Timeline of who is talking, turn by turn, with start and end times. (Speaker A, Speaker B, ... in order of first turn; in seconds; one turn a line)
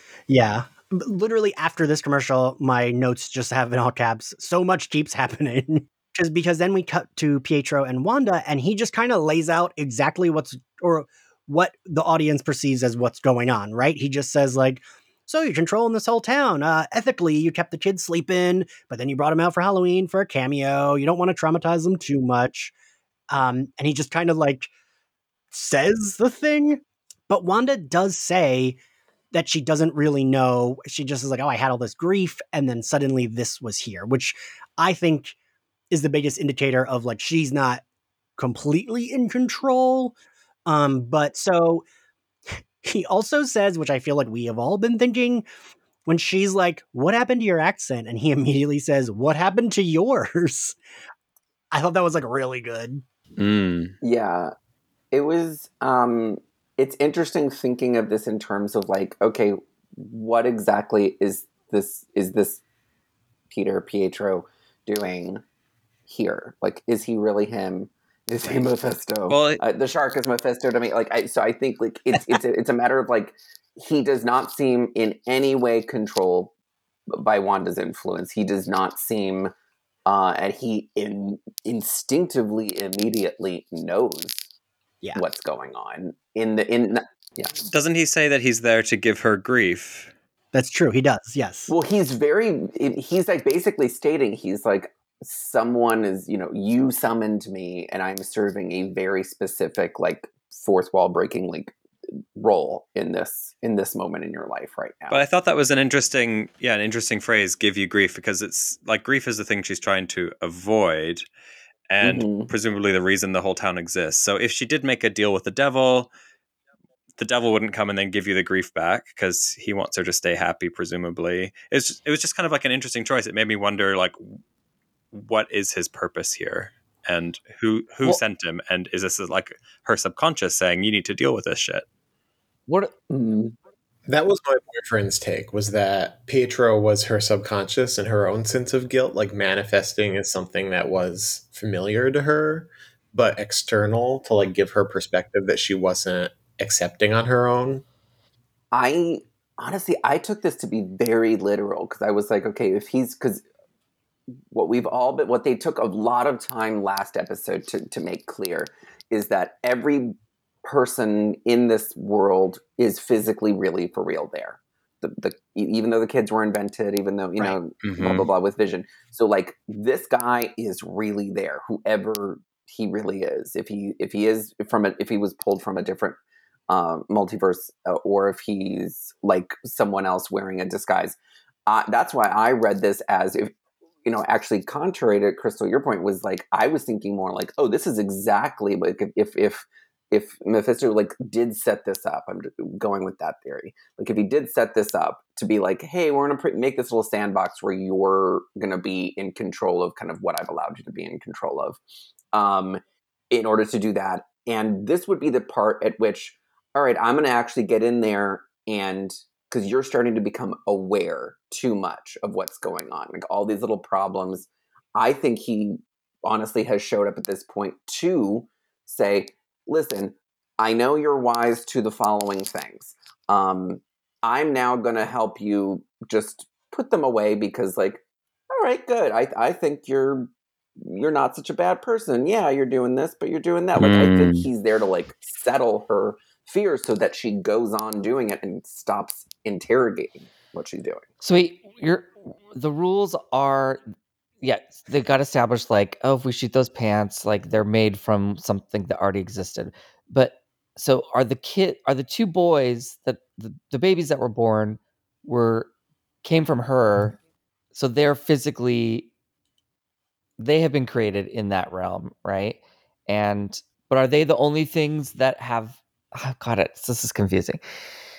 Speaker A: 0.3-22.8
Speaker A: 23.3-24.7
Speaker A: 25.5-28.8
Speaker A: 29.3-35.4
Speaker A: 35.9-37.8
Speaker A: 38.4-40.1
Speaker A: 40.7-41.9
Speaker A: 42.8-45.5
Speaker A: 46.1-50.8
Speaker A: 51.7-53.0
Speaker B: 53.4-53.9
Speaker C: 54.0-54.5
Speaker C: 55.1-62.6
Speaker C: 63.5-65.4
Speaker C: 66.1-76.5
Speaker B: 69.3-69.6
Speaker C: 77.1-79.5
Speaker C: 80.1-84.5
Speaker C: 85.2-87.6
Speaker B: 87.7-90.1
Speaker A: 90.5-91.7
Speaker C: 91.7-101.7
Speaker C: 102.4-105.2
Speaker B: 105.1-111.2
Speaker B: 111.9-116.1
Speaker C: 112.0-112.5
Speaker B: 117.2-124.2
Speaker B: 125.1-131.8
Speaker D: 132.7-132.9
Speaker C: 133.1-133.6
Speaker E: 134.1-147.8
Speaker C: 148.7-153.4
Speaker C: 154.5-181.2
Speaker B: 167.8-168.3
Speaker C: 181.7-201.8
Speaker C: 202.3-241.0
Speaker B: 233.8-234.5
Speaker D: 241.2-243.8
Speaker D: 244.4-255.7
Speaker D: 256.2-257.2
Speaker D: 257.7-259.1
Speaker D: 260.4-267.6